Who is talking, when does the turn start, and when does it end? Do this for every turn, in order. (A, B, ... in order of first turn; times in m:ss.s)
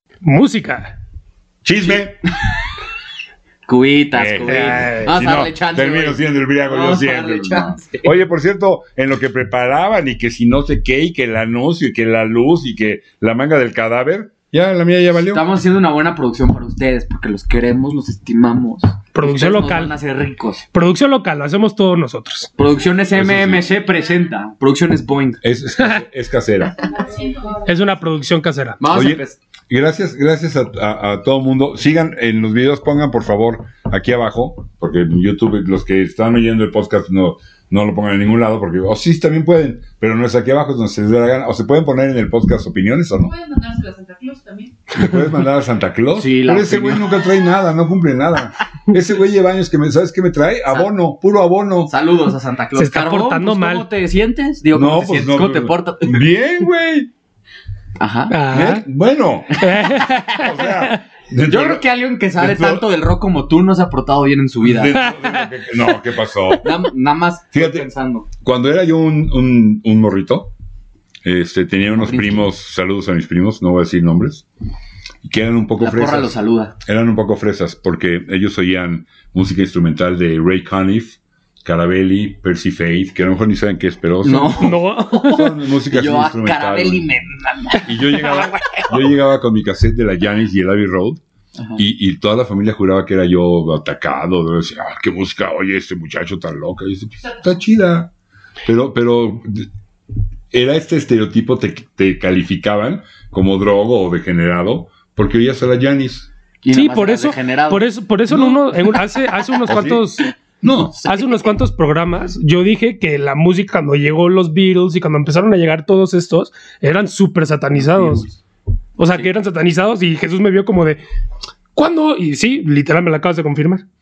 0:00.2-0:01.0 A
0:01.6-0:02.2 B
0:03.7-0:08.1 C
0:04.1-0:15.5 B
0:04.5-0:05.1 A
0:15.2-0:20.6 C
0:19.1-0:19.9 A
0:20.7-0:22.5 A
0:22.6-0:25.4 C
0:23.2-0:23.7 B
0:25.4-0:26.8 B
0:26.8-0:27.6 D
0:27.6-0:28.8 A
0:28.8-0:29.4 C
0:28.9-0:43.3 B
0:43.2-0:44.8 D
0:44.9-0:51.9 B
0:46.2-0:47.1 C
0:51.9-0:56.3 C
0:52.8-0:53.9 A
0:54.7-0:57.1 B
0:58.0-0:58.4 C
0:58.3-0:58.8 A
0:58.5-0:59.6 B
0:59.6-1:01.0 A
1:00.3-1:01.8 B
1:01.5-1:05.0 C
1:02.4-1:02.8 B
1:04.6-1:06.7 B
1:05.0-1:05.4 A
1:06.6-1:08.3 C
1:07.6-1:07.9 B
1:08.4-1:10.5 B
1:11.2-1:14.4 B
1:12.0-1:12.5 C
1:15.2-1:27.1 B
1:15.8-1:16.8 C
1:24.2-1:29.0 C
1:24.6-1:25.5 A
1:27.8-1:31.2 B
1:31.8-1:38.1 B
1:38.6-1:39.7 B
1:40.5-1:46.3 B
1:46.6-1:48.5 C
1:46.7-1:50.3 A
1:49.7-1:50.0 B
1:50.6-1:51.0 B
1:50.9-1:51.5 C
1:51.1-1:58.3 A
1:57.8-1:58.3 B
1:59.0-2:01.0 A
2:01.8-2:03.8 A